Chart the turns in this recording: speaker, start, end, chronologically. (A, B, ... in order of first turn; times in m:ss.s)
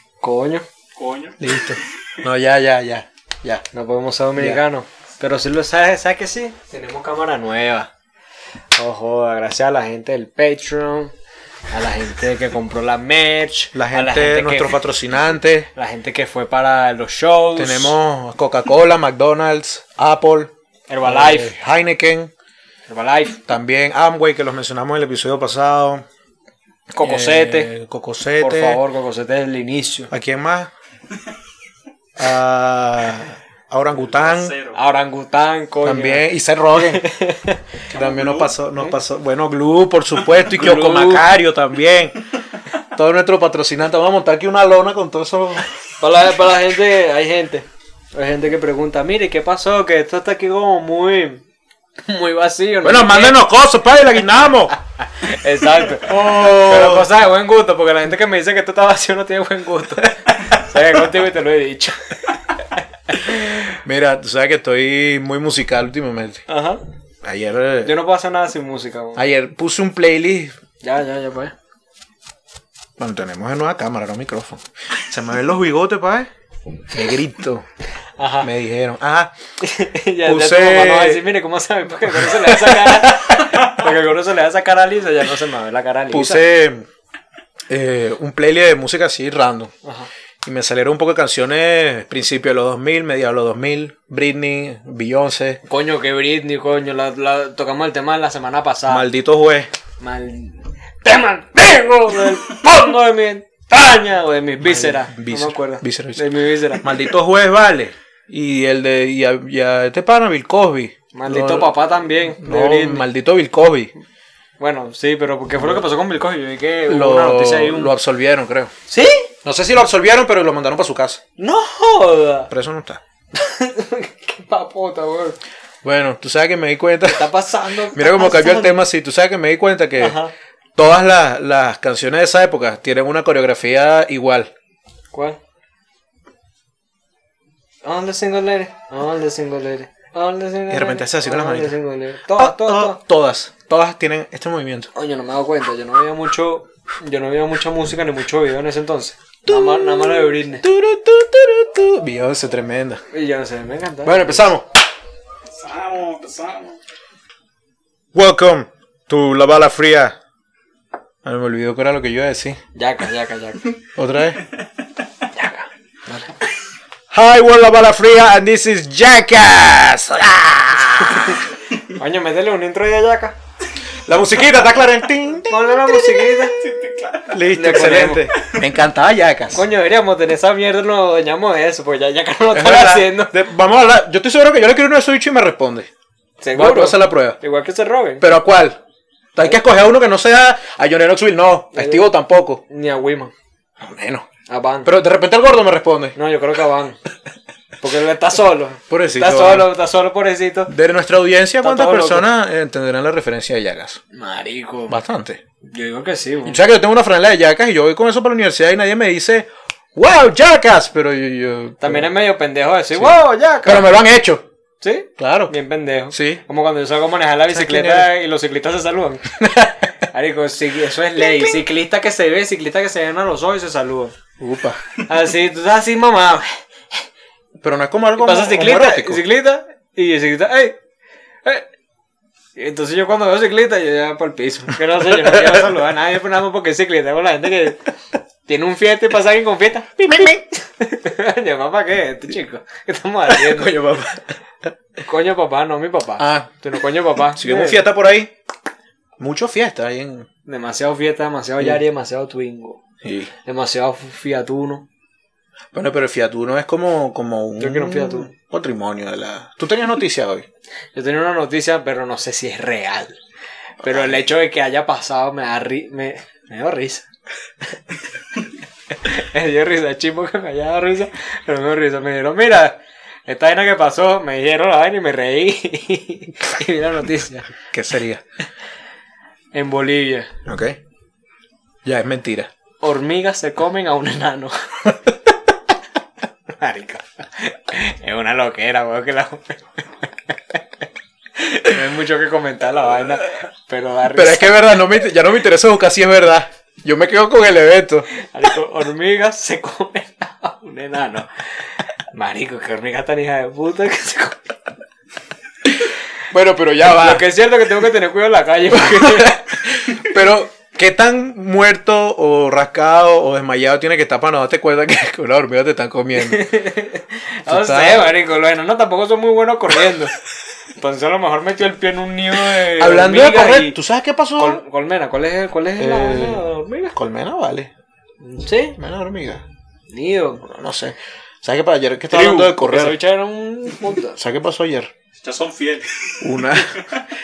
0:00.2-0:00.7 A
0:01.0-0:01.8 B
0:01.4-0:03.6 C
0:03.7-0:07.9 A
0:08.8-0:11.1 A
0:11.7-0:14.8 A
0:13.7-0:15.7 C
0:15.7-0:18.0 A
0:17.6-0:22.3 C
0:20.9-0:21.5 A
0:22.9-0:23.4 A
0:23.5-0:26.0 C
0:27.0-0:27.7 A
0:27.0-0:28.8 C
0:28.4-0:30.1 A
0:30.1-0:30.7 C
0:32.2-0:34.6 C
0:34.1-0:34.8 B
0:34.8-0:37.6 A
0:35.8-0:37.0 C
0:37.9-0:42.2 C
0:40.5-0:41.3 A
0:42.9-0:45.7 C
0:46.0-0:51.4 A
0:52.0-0:53.4 A
0:52.8-0:54.8 C
0:55.2-1:03.6 A
0:56.0-0:57.1 C
1:03.2-1:06.4 C
1:06.5-1:06.8 A
1:07.2-1:07.9 C
1:07.8-1:09.2 A
1:09.2-1:10.6 C
1:10.8-1:11.5 A
1:13.0-1:16.3 C
1:16.9-1:17.7 C
1:18.2-1:18.5 A
1:18.4-1:19.3 C
1:19.6-1:26.4 A
1:20.2-1:21.3 C
1:22.1-1:23.4 C
1:26.1-1:26.9 C
1:27.7-1:29.7 C
1:30.4-1:35.6 C
1:35.7-1:39.1 A
1:38.9-1:39.7 C
1:40.0-1:46.9 A
1:44.6-1:51.8 C
1:51.1-1:53.1 A
1:52.3-1:53.9 C
1:54.6-1:57.9 A
1:56.9-1:58.7 C
1:58.9-1:59.3 A
1:59.4-2:01.2 C
2:01.4-2:02.5 A
2:02.5-2:03.0 C
2:03.3-2:05.4 A
2:05.8-2:07.3 C
2:07.1-2:08.8 A
2:07.9-2:10.2 C
2:10.0-2:10.3 A
2:10.8-2:14.5 C
2:15.1-2:15.4 A
2:17.8-2:23.0 A
2:20.7-2:24.9 C
2:24.9-2:30.7 A
2:29.4-2:33.0 C
2:33.1-2:34.5 A
2:34.0-2:34.7 C
2:35.5-2:36.8 B
2:38.1-2:40.2 C
2:41.2-2:42.6 C
2:42.8-2:43.7 A
2:44.0-2:44.4 C
2:45.4-2:46.3 A
2:47.1-2:51.5 C
2:51.8-2:53.4 A
2:54.0-2:56.2 C
2:55.5-2:56.6 A
2:56.5-2:57.3 B
2:57.3-2:59.6 C
2:57.5-2:58.3 A
2:59.5-3:03.4 A
3:02.5-3:05.9 C
3:06.4-3:08.2 A
3:06.5-3:07.4 C
3:08.2-3:08.8 C
3:09.3-3:12.6 C
3:11.7-3:12.1 A
3:12.7-3:13.3 A
3:13.8-3:14.3 C
3:14.5-3:14.9 A
3:14.8-3:16.2 C
3:16.2-3:17.0 A
3:17.8-3:20.7 A
3:18.9-3:19.7 C
3:20.7-3:24.0 C
3:21.6-3:22.3 A
3:24.1-3:25.0 A
3:24.9-3:25.4 C
3:25.7-3:26.6 A
3:26.4-3:32.1 C
3:31.8-3:33.9 A
3:32.9-3:34.5 C
3:34.8-3:44.2 A
3:35.2-3:35.5 C
3:36.1-3:36.4 C
3:37.5-3:38.1 C
3:39.4-3:39.7 C
3:41.2-3:41.5 C
3:44.4-3:44.8 C
3:45.0-3:46.6 A
3:47.6-3:49.2 C
3:48.2-3:50.8 A
3:52.6-3:57.8 A
3:55.2-3:55.7 C
3:58.4-3:59.9 A
4:00.0-4:00.4 C
4:00.8-4:04.2 A
4:03.3-4:04.2 C
4:05.0-4:07.8 A
4:06.2-4:06.5 C
4:07.3-4:08.3 C
4:09.2-4:10.3 C
4:10.5-4:12.8 A
4:13.0-4:13.3 C
4:13.4-4:14.9 A
4:15.7-4:20.4 C
4:17.6-4:18.3 A
4:20.9-4:23.2 A
4:23.8-4:27.0 A
4:23.8-4:24.2 C
4:29.0-4:37.5 A
4:37.7-4:38.2 C
4:39.5-4:40.3 A
4:40.4-4:40.8 C
4:41.8-4:42.5 C
4:42.8-4:45.0 A
4:46.5-4:50.6 A
4:51.5-4:54.5 A
4:54.1-4:58.1 C
4:58.1-5:04.5 A
5:06.3-5:07.2 C
5:06.9-5:09.5 A
5:08.7-5:16.4 C
5:16.2-5:20.2 A
5:17.5-5:18.1 C
5:20.8-5:23.8 A
5:22.5-5:24.6 C
5:24.4-5:26.9 A
5:25.8-5:27.7 C
5:28.2-5:28.8 A
5:28.8-5:29.4 C
5:29.9-5:30.4 A
5:30.4-5:33.0 C
5:32.1-5:34.2 A
5:34.1-5:34.9 C
5:35.2-5:37.0 B
5:36.2-5:36.8 C